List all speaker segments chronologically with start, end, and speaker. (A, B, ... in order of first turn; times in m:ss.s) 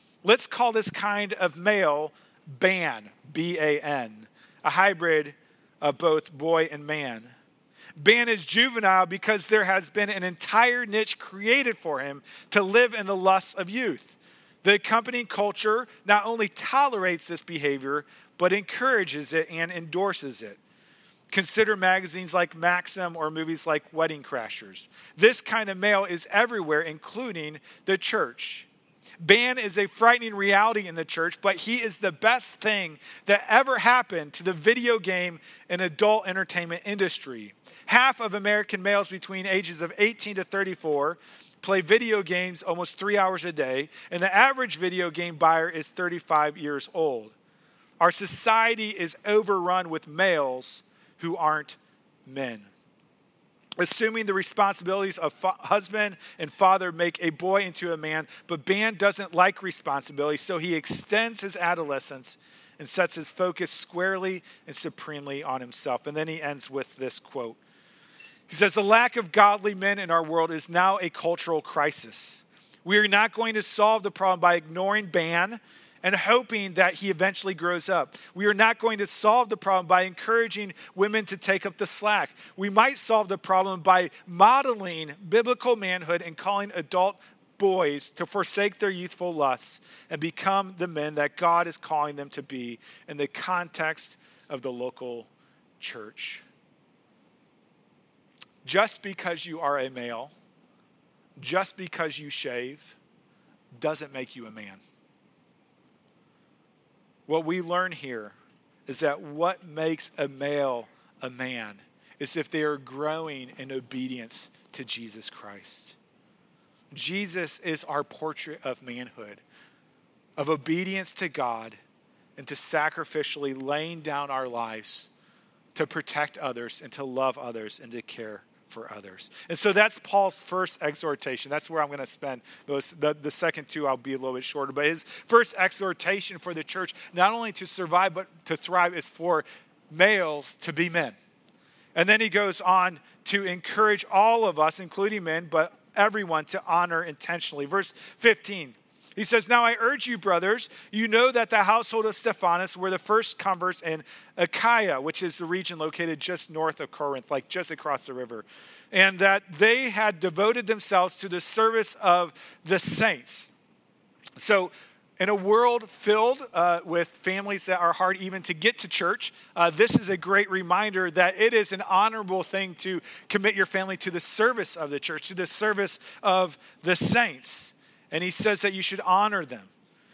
0:00.2-0:07.3 A
0:08.0-0:20.6 A
0:21.3-0:28.7 A
0:29.2-0:47.4 A
0:48.0-0:52.7 A
0:53.8-1:07.6 A
1:08.5-1:36.4 A
1:38.6-1:40.3 A
1:41.4-1:43.0 A
1:43.7-1:44.8 A
1:47.3-1:48.4 A
1:48.9-1:56.0 A
1:56.9-1:59.4 A
2:00.4-2:01.8 A
2:02.4-2:05.1 A
2:05.8-2:21.2 A
2:22.0-2:43.5 A
2:44.4-2:59.7 A